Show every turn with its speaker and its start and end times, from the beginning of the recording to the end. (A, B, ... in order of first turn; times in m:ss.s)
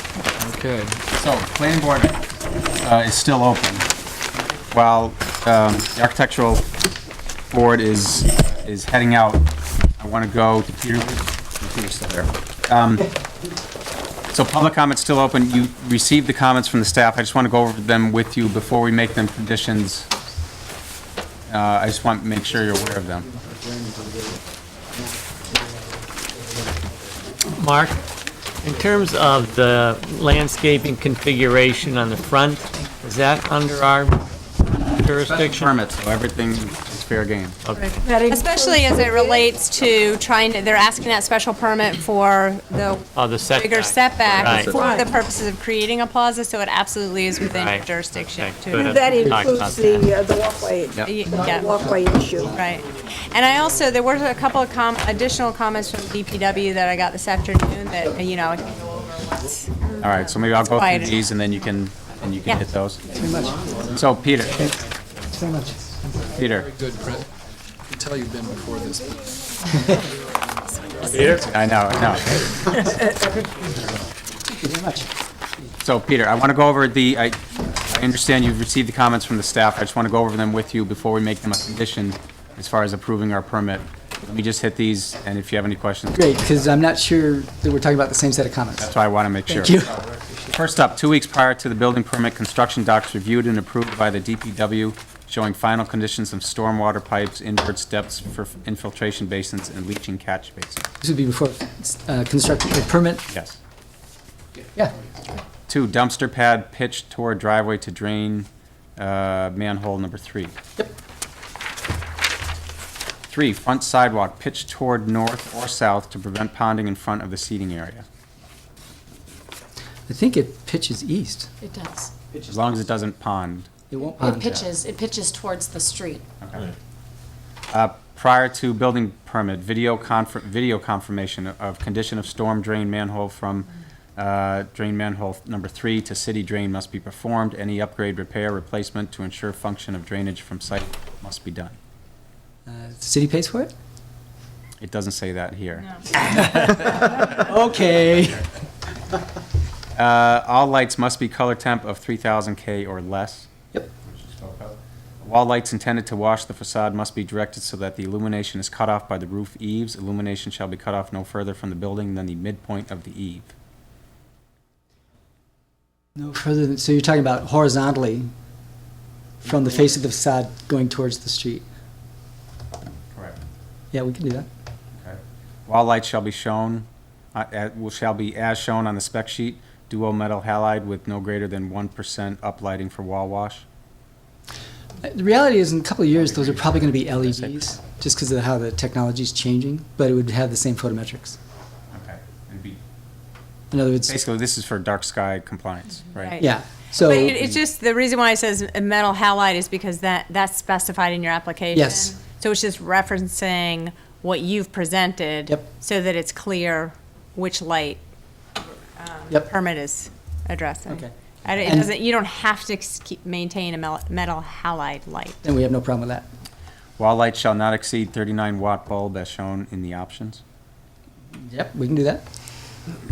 0:00.4-0:01.0 A
0:01.2-0:02.3 B
0:02.8-0:03.9 B
0:04.7-0:06.7 B
0:07.5-0:09.4 B
0:10.0-0:13.1 B
0:14.3-0:20.1 B
0:21.5-0:23.3 B
0:23.4-0:24.4 C
0:27.6-0:28.0 D
0:28.6-0:34.2 D
0:34.8-0:35.7 D
0:35.2-0:37.6 B
0:37.8-0:49.5 E
0:38.0-0:39.3 F
0:43.2-0:44.8 D
0:44.6-0:45.0 F
0:47.5-0:50.0 D
0:48.8-0:52.5 F
0:51.0-0:51.8 E
0:52.4-0:59.9 E
1:00.0-1:03.0 B
1:00.6-1:01.2 E
1:03.1-1:03.7 C
1:03.9-1:04.7 B
1:05.3-1:06.0 C
1:06.4-1:06.7 B
1:06.4-1:07.3 A
1:07.9-1:09.1 A
1:11.2-1:12.3 B
1:14.5-1:15.1 C
1:15.8-1:26.4 B
1:26.1-1:28.9 C
1:28.8-1:30.0 B
1:29.5-1:30.6 C
1:30.5-1:40.8 B
1:41.0-1:43.2 C
1:43.3-1:43.6 B
1:45.7-1:50.6 B
1:53.3-1:58.0 B
2:00.1-2:01.5 C
2:01.6-2:02.1 G
2:02.4-2:03.7 B
2:03.9-2:04.6 C
2:04.0-2:06.2 G
2:04.3-2:04.7 B
2:06.4-2:06.7 B
2:07.7-2:21.8 B
2:22.7-2:23.7 C
2:24.8-2:26.3 B
2:26.1-2:28.5 C
2:30.0-2:33.5 B
2:34.0-2:43.5 B
2:46.2-2:48.3 C
2:49.4-2:51.6 C
2:53.9-2:54.5 C
2:55.0-3:03.6 B
3:05.0-3:11.4 C
3:06.1-3:07.8 B
3:11.9-3:12.8 B
3:13.7-3:14.2 C
3:14.1-3:16.4 B
3:16.2-3:28.0 E
3:16.4-3:17.4 C
3:21.7-3:22.1 C
3:29.0-3:35.4 E
3:30.9-3:31.9 C
3:35.4-3:36.2 C
3:37.0-3:40.4 B
3:41.4-3:42.2 C